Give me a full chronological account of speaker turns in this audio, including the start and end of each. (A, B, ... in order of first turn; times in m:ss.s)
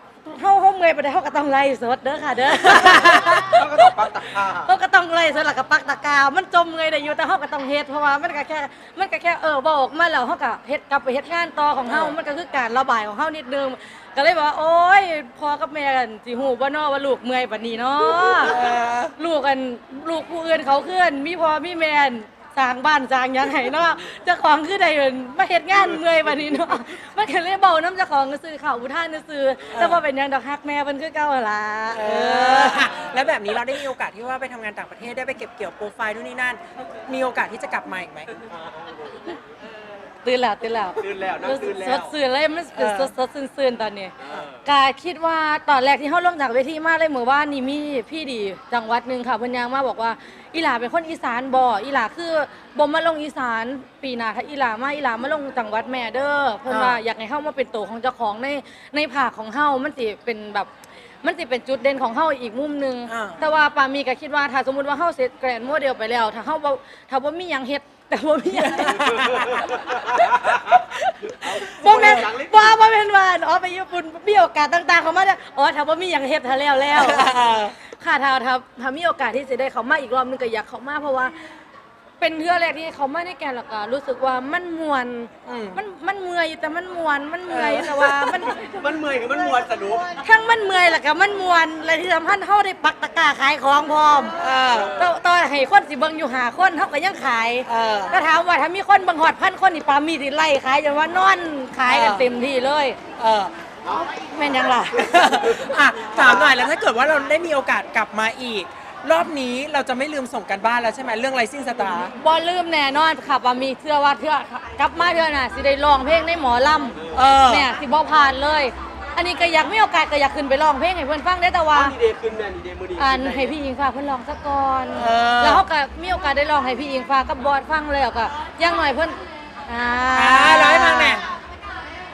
0:00.2-0:03.9 A
0:02.7-0:03.4 B
0:03.4-0:04.7 C
0:04.6-0:18.6 A
0:11.9-0:12.2 B
0:18.1-0:19.1 B
0:19.2-0:32.9 A
0:29.7-0:30.0 B
0:31.9-0:38.3 B
0:38.4-0:39.1 C
0:40.2-0:44.1 A
0:41.0-0:42.1 C
0:42.8-0:43.1 B
0:44.2-0:44.6 C
0:44.6-1:00.7 A
0:56.7-0:57.0 B
1:01.2-1:21.4 A
1:03.1-1:03.4 B
1:09.0-1:09.4 B
1:09.8-1:12.8 C
1:16.9-1:17.8 B
1:22.2-1:28.8 A
1:25.4-1:25.8 B
1:27.5-1:28.5 B
1:28.6-1:30.2 C
1:30.2-1:34.4 A
1:34.4-1:35.0 B
1:34.9-1:43.0 A
1:37.7-1:38.2 B
1:41.9-1:42.3 B
1:43.2-1:43.5 B
1:44.0-1:45.3 A
1:45.0-1:52.1 B
1:51.8-2:01.9 A
1:57.1-1:57.7 B
2:01.7-2:03.6 C
2:03.0-2:11.2 A
2:05.0-2:05.6 B
2:10.1-2:11.2 B